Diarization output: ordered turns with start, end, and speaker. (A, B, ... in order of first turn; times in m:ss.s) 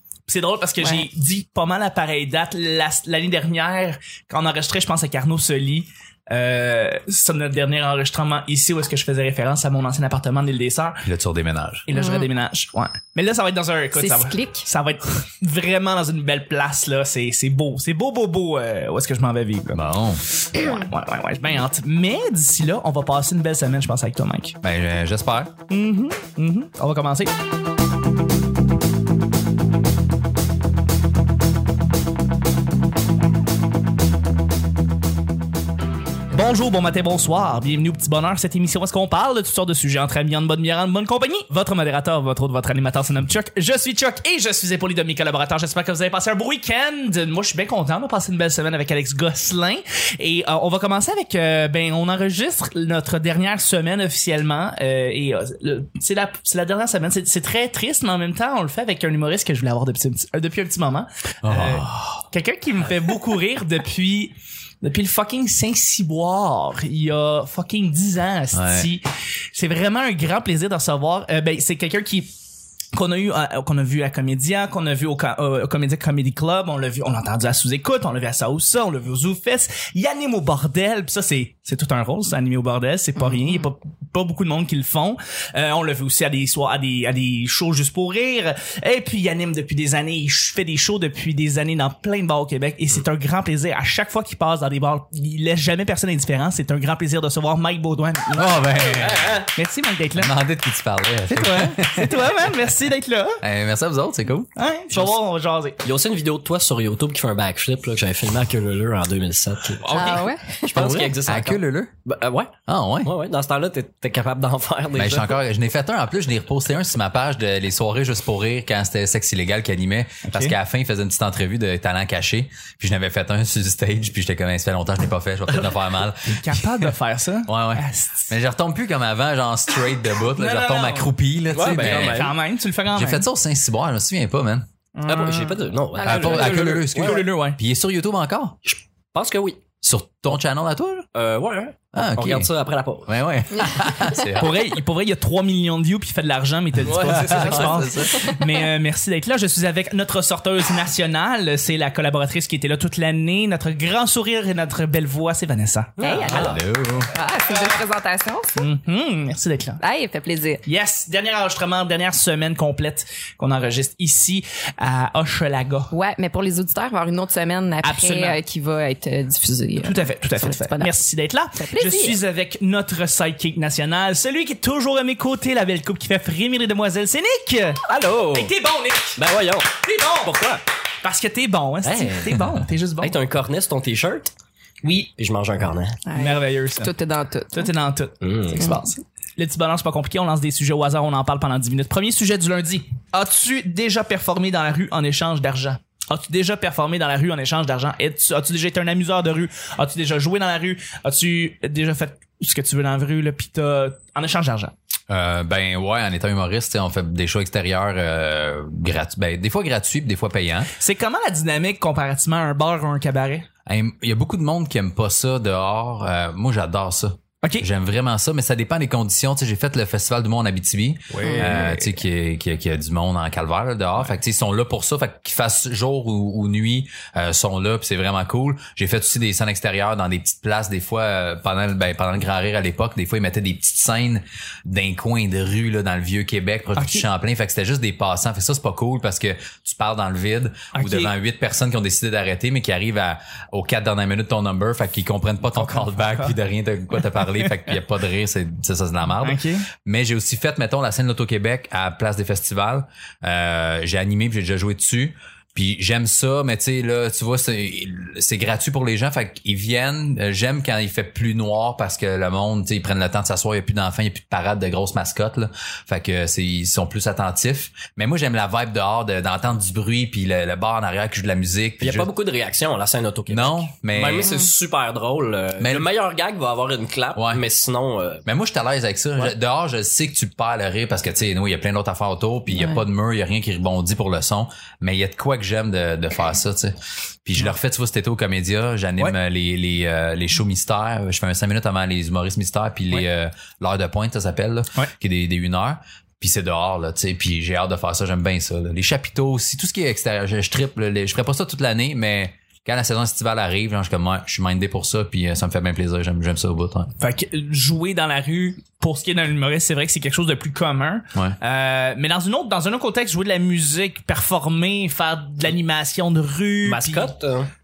0:00.3-0:11.1 A
0:11.0-0:11.9 B
0:11.9-0:19.8 A
0:11.9-0:12.3 C
0:13.9-0:14.7 C
0:19.7-0:20.2 B
0:20.5-0:24.6 A
0:24.6-0:25.5 B
0:25.7-0:27.3 A
0:36.3-1:12.3 A
1:01.4-1:02.3 B
1:08.5-1:08.9 B
1:12.9-1:39.0 A
1:38.3-1:39.4 B
1:38.9-1:39.5 D
1:39.6-1:40.3 A
1:40.2-1:42.5 B
1:41.3-1:43.4 A
1:43.4-1:44.5 B
1:44.6-1:45.8 A
1:45.8-1:55.4 D
1:49.8-1:50.3 A
1:49.9-1:50.7 C
1:50.7-1:51.9 B
1:52.7-1:53.1 B
1:54.9-2:06.9 B
2:00.2-2:00.6 A
2:06.3-2:08.3 A
2:07.5-2:12.3 B
2:10.4-2:11.1 A
2:11.5-2:12.4 D
2:11.8-2:13.2 A
2:12.9-2:14.7 B
2:15.0-2:15.6 A
2:15.0-2:17.3 D
2:16.0-2:16.5 C
2:16.0-2:18.6 B
2:16.2-2:17.6 A
2:18.7-2:19.6 D
2:19.8-2:21.1 B
2:21.2-2:23.1 D
2:22.0-2:22.5 B
2:23.1-2:24.7 B
2:23.6-2:23.8 C
2:24.4-2:36.5 A
2:26.8-2:28.1 D
2:26.9-2:28.3 B
2:36.0-2:36.5 D
2:36.0-2:38.6 C
2:36.2-2:37.1 B
2:38.6-2:39.8 A
2:39.8-2:40.6 C
2:40.7-2:45.9 A
2:45.9-2:51.0 C
2:47.8-2:48.4 A
2:49.8-2:59.2 A
2:51.6-2:52.2 C
2:58.2-2:58.5 D
2:59.2-3:00.6 D
2:59.8-3:00.4 A
3:01.0-3:03.2 A
3:01.8-3:02.4 D
3:03.0-3:04.3 D
3:04.8-3:05.1 A
3:05.2-3:06.0 D
3:06.1-3:07.7 C
3:06.1-3:06.9 A
3:07.5-3:24.7 A
3:08.2-3:08.7 D
3:25.1-3:30.7 B
3:30.8-3:33.5 A
3:33.7-4:32.1 B
3:37.4-3:37.7 A
3:41.1-3:41.9 A
3:41.2-3:41.5 C
3:56.8-3:57.1 A
4:00.7-4:01.1 A
4:05.6-4:06.4 A
4:09.2-4:09.7 A
4:31.8-4:38.2 D
4:33.3-4:34.4 B
4:35.6-4:35.9 B
4:37.2-4:37.4 B
4:38.3-5:06.9 B
4:42.6-4:42.8 C
5:07.0-5:17.1 A
5:16.6-5:17.5 D